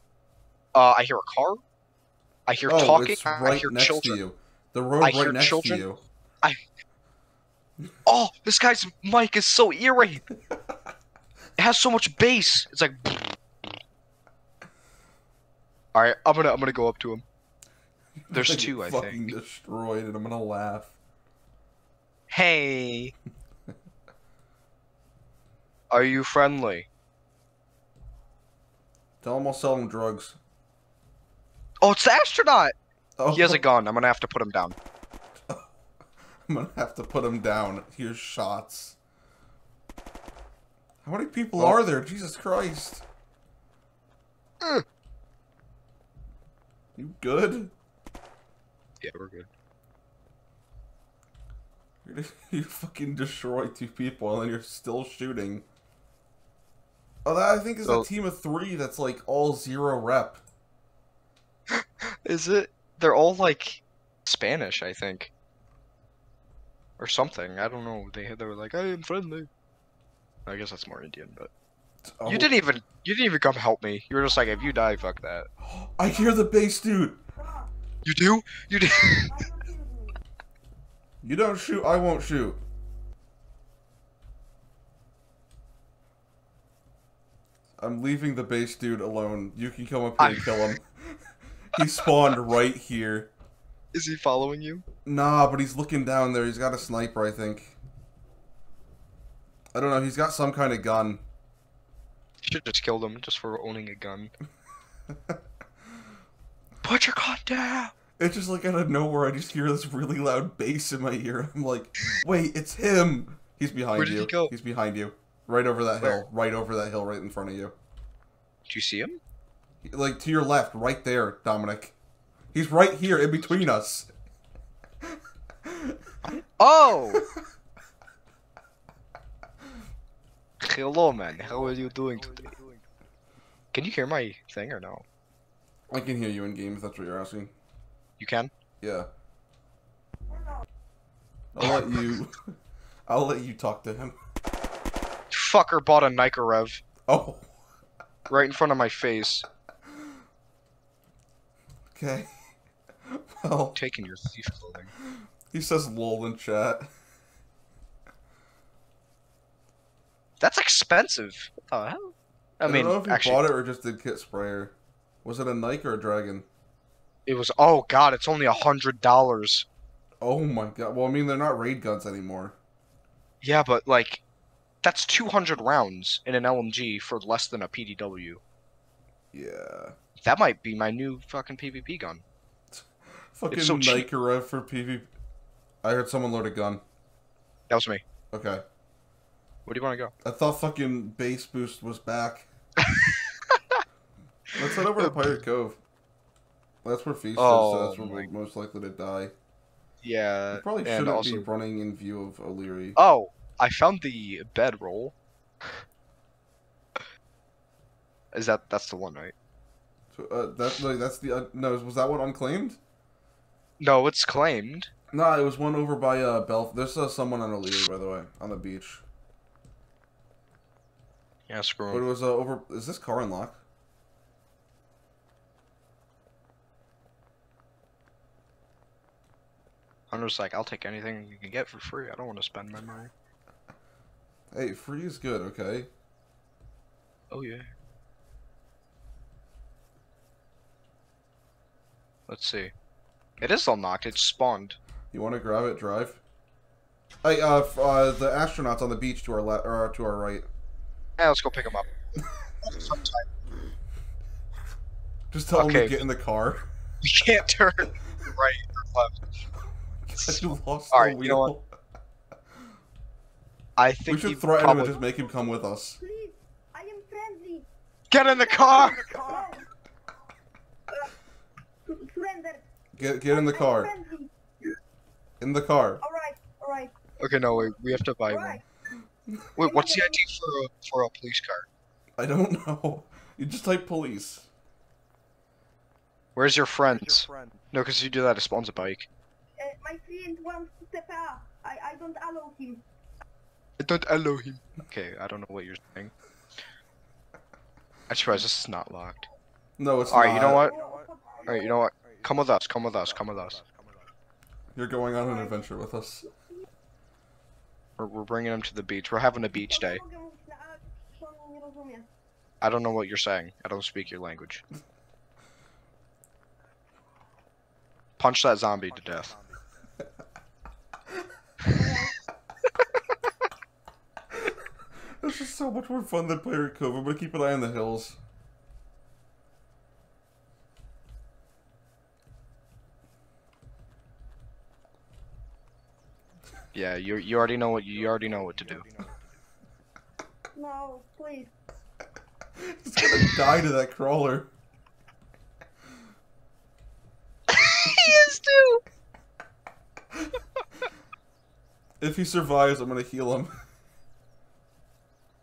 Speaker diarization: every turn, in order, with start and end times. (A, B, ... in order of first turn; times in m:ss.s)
0:00.7-0:01.6 A
0:02.5-0:04.2 A
0:02.7-0:06.0 B
0:05.0-0:05.8 A
0:08.0-0:10.2 A
0:11.6-0:13.4 A
0:15.9-0:17.2 A
0:18.3-0:20.9 B
0:18.3-0:19.3 A
0:22.3-0:23.1 A
0:25.9-0:26.9 A
0:29.2-0:30.4 B
0:31.8-0:32.7 A
0:33.2-0:33.6 B
0:33.3-0:34.8 A
0:35.5-0:35.8 B
0:36.5-0:39.0 B
0:41.0-0:43.0 B
0:47.0-0:47.7 B
0:49.0-0:49.5 A
0:52.0-0:55.6 B
0:57.2-1:00.4 B
1:01.7-1:05.3 A
1:07.0-1:09.5 A
1:10.4-1:11.5 A
1:12.2-1:12.5 B
1:12.2-1:15.5 A
1:14.5-1:15.1 C
1:15.6-1:17.2 B
1:17.4-1:17.7 C
1:18.0-1:19.5 A
1:18.9-1:20.2 C
1:21.2-1:22.6 B
1:27.8-1:33.3 B
1:30.2-1:30.7 A
1:31.8-1:32.1 A
1:33.9-1:34.8 A
1:35.0-1:37.8 B
1:39.7-1:41.2 B
1:42.4-1:44.3 A
1:46.8-1:47.9 A
1:48.2-1:57.7 B
1:54.0-1:54.5 A
1:58.7-1:59.2 A
1:59.8-2:02.0 B
2:02.5-2:04.1 B
2:05.0-2:06.0 B
2:06.2-2:07.2 A
2:10.6-2:12.5 A
2:13.7-2:15.0 A
2:15.9-2:17.5 B
2:18.2-2:18.5 A
2:18.8-2:19.1 B
2:21.5-2:22.6 B
2:23.1-2:24.2 B
2:25.3-2:26.8 A
2:27.1-2:27.5 B
2:28.3-2:29.4 A
2:31.9-2:32.4 B
2:33.1-2:33.8 B
2:33.7-2:34.9 A
2:35.5-2:36.9 B
2:40.4-2:43.4 A
2:42.6-2:46.4 B
2:47.2-2:49.7 A
2:50.2-2:52.6 B
2:53.4-2:54.2 A
2:54.8-2:58.4 A
2:59.3-3:00.0 B
3:00.2-3:02.2 A
3:02.7-3:05.1 B
3:03.5-3:04.0 A
3:05.8-3:06.8 B
3:07.7-3:08.0 A
3:08.3-3:08.6 B
3:09.6-3:10.1 A
3:10.2-3:12.5 B
3:12.8-3:13.8 A
3:14.5-3:15.8 B
3:15.0-3:15.4 A
3:16.8-3:19.3 B
3:17.4-3:18.3 A
3:20.0-3:21.5 A
3:20.5-3:23.0 B
3:23.0-3:25.8 A
3:28.3-3:29.3 A
3:30.1-3:32.8 B
3:33.8-3:34.9 A
3:35.1-3:39.0 B
3:41.5-3:42.0 A
3:41.9-3:43.6 B
3:50.1-3:53.1 A
3:54.5-3:55.9 B
3:57.3-3:57.7 A
4:02.3-4:02.7 A
4:03.4-4:04.8 A
4:05.1-4:06.2 B
4:07.2-4:10.5 B
4:11.2-4:11.9 A
4:12.6-4:13.3 A
4:15.3-4:16.7 B
4:15.5-4:16.0 A
4:17.0-4:19.2 A
4:20.0-4:21.7 B
4:20.2-4:21.5 A
4:23.8-4:25.0 A
4:24.1-4:26.0 B
4:25.0-4:29.7 C
4:28.1-4:29.5 A
4:31.9-4:32.7 C
4:32.9-4:33.9 B
4:33.2-4:34.8 C
4:35.4-4:36.0 B
4:36.0-4:38.6 C
4:37.2-4:38.6 A
4:39.6-4:40.2 C
4:39.6-4:41.7 A
4:42.2-4:44.5 B
4:46.4-4:49.1 A
4:49.6-4:52.8 C
4:53.8-4:56.1 A
4:58.1-4:59.3 A
4:59.8-5:00.7 B
5:00.1-5:00.7 A
5:00.5-5:01.8 C
5:01.4-5:03.6 A
5:04.8-5:06.3 B
5:05.2-5:05.7 C
5:08.0-5:10.0 A
5:09.5-5:12.1 C
5:12.6-5:14.6 A
5:18.2-5:19.3 A
5:21.6-5:22.2 C
5:25.2-5:28.2 B
5:36.7-5:38.9 A
5:40.5-5:41.5 C
5:42.6-5:44.5 B
5:47.5-5:48.8 A
5:52.0-5:53.6 B